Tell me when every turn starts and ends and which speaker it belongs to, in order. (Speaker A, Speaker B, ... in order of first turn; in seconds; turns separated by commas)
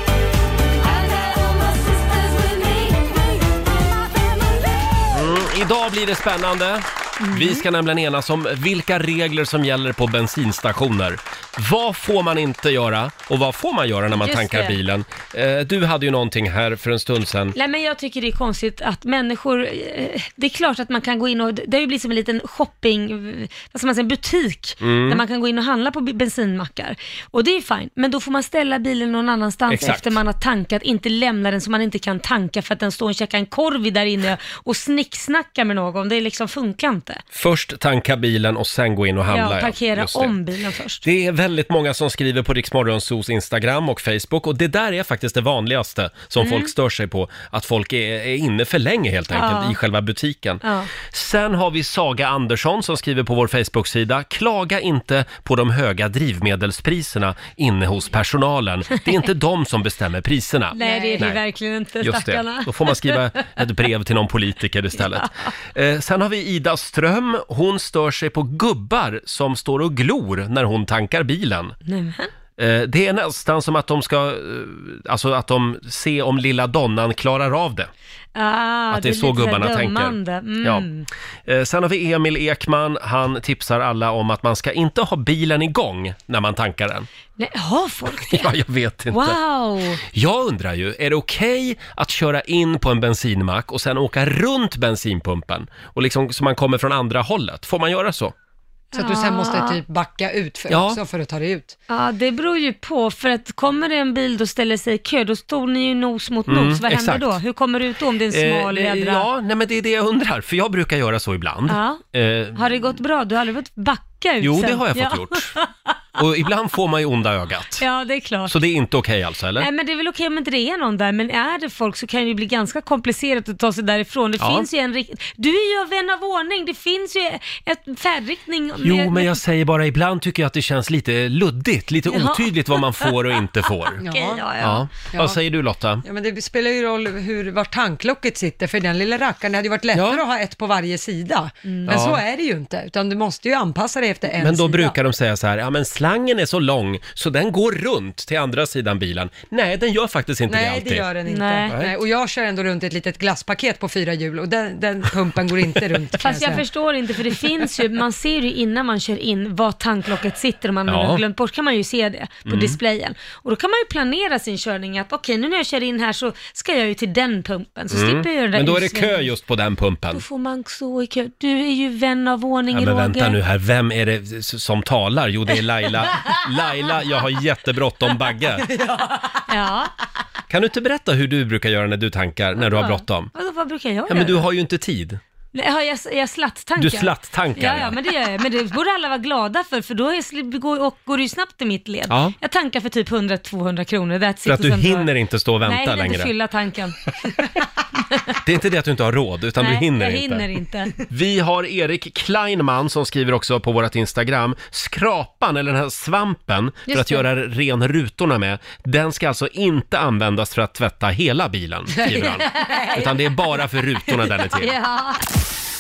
Speaker A: 0.8-3.3, Speaker B: 5.1-17.5, Speaker A: 7.2-7.6, Speaker A: 14.1-14.8, Speaker A: 17.5-37.2, Speaker B: 24.8-25.2, Speaker B: 29.7-30.2, Speaker B: 37.3-40.4, Speaker A: 39.3-41.0, Speaker B: 41.0-61.4, Speaker A: 46.4-46.7, Speaker A: 49.3-49.8, Speaker A: 50.6-50.9, Speaker A: 60.7-63.6, Speaker C: 60.8-61.3, Speaker B: 62.0-71.7, Speaker A: 65.0-65.5, Speaker A: 71.8-72.3, Speaker B: 72.6-77.9, Speaker A: 78.3-81.1, Speaker B: 78.9-80.9, Speaker B: 81.5-87.1, Speaker A: 87.4-88.5, Speaker B: 88.1-89.4, Speaker A: 89.1-90.0, Speaker B: 90.0-98.3, Speaker A: 98.9-99.8, Speaker C: 98.9-101.8, Speaker B: 100.7-101.0, Speaker A: 101.9-109.3, Speaker B: 106.5-107.4, Speaker B: 108.3-113.0, Speaker A: 111.7-112.0, Speaker A: 112.5-116.0, Speaker B: 114.4-115.5, Speaker B: 116.2-117.8, Speaker A: 117.8-118.5, Speaker B: 118.5-119.7, Speaker A: 119.6-129.4, Speaker B: 124.4-124.7, Speaker B: 128.8-134.0, Speaker A: 132.0-134.9, Speaker C: 134.0-134.5, Speaker B: 134.6-136.0, Speaker C: 135.1-135.4, Speaker C: 136.0-145.0, Speaker B: 139.9-140.2, Speaker A: 141.6-142.0, Speaker B: 141.9-142.2, Speaker B: 144.4-151.1, Speaker C: 150.5-156.6, Speaker A: 151.2-151.8, Speaker A: 156.2-169.3, Speaker B: 160.9-161.2, Speaker B: 162.4-162.8, Speaker B: 167.9-170.2, Speaker A: 170.1-173.4, Speaker B: 172.7-178.7, Speaker C: 178.7-179.3, Speaker A: 179.4-179.9, Speaker B: 180.5-183.3, Speaker A: 182.6-184.4, Speaker B: 184.1-185.2, Speaker A: 185.5-195.1, Speaker B: 186.8-188.0, Speaker B: 192.1-192.3, Speaker B: 194.4-196.3, Speaker A: 195.6-198.3, Speaker B: 198.4-214.8, Speaker A: 199.6-200.9, Speaker A: 206.9-207.2, Speaker A: 212.0-213.3, Speaker A: 214.1-215.2